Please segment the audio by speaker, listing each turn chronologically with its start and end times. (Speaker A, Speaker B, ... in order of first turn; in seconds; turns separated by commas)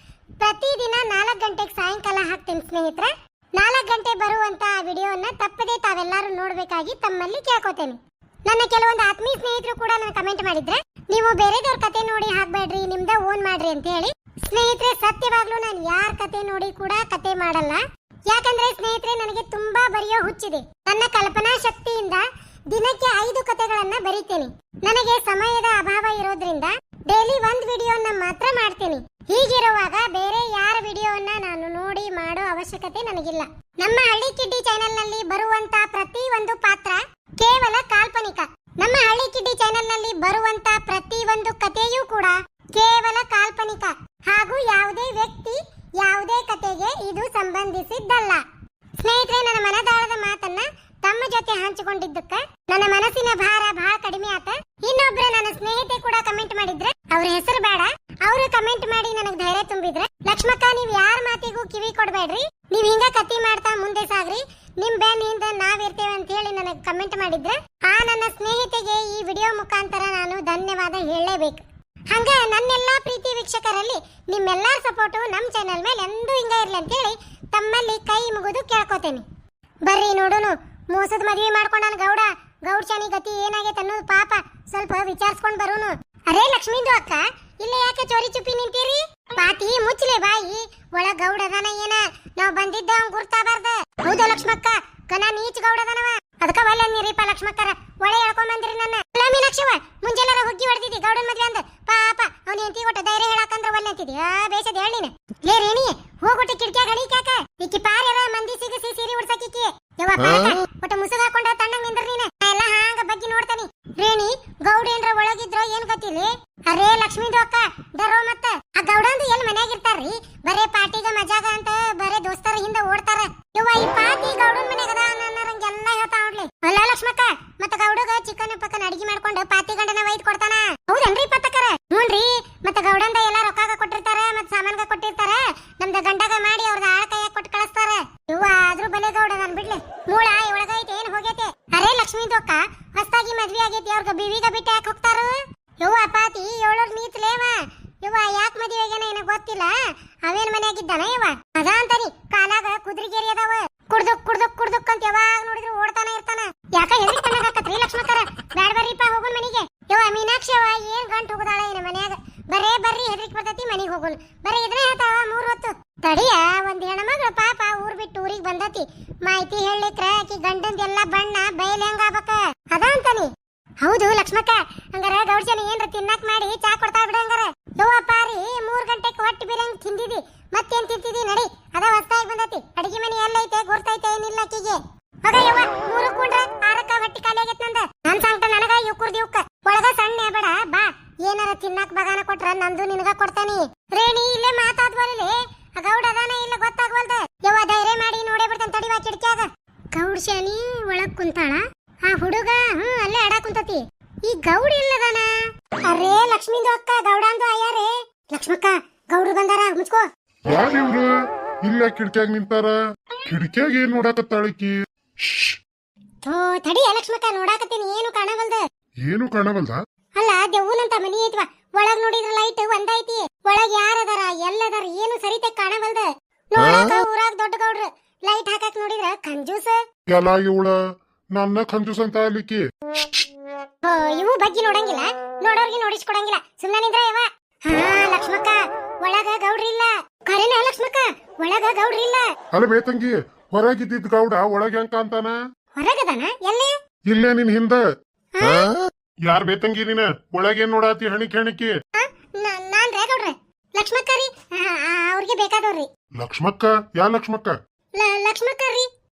Speaker A: 0.4-48.4, Speaker A: 49.0-79.3, Speaker A: 79.9-210.1, Speaker B: 210.5-211.1, Speaker B: 211.7-215.6, Speaker A: 216.2-218.7, Speaker B: 219.1-219.8, Speaker A: 220.2-229.8, Speaker B: 230.1-230.8, Speaker B: 231.3-233.2, Speaker A: 233.8-242.3, Speaker B: 242.5-245.4, Speaker A: 245.8-246.8, Speaker B: 247.1-247.8, Speaker A: 248.3-248.8, Speaker B: 249.3-251.7, Speaker A: 251.9-255.9, Speaker B: 256.2-257.6, Speaker A: 258.0-258.9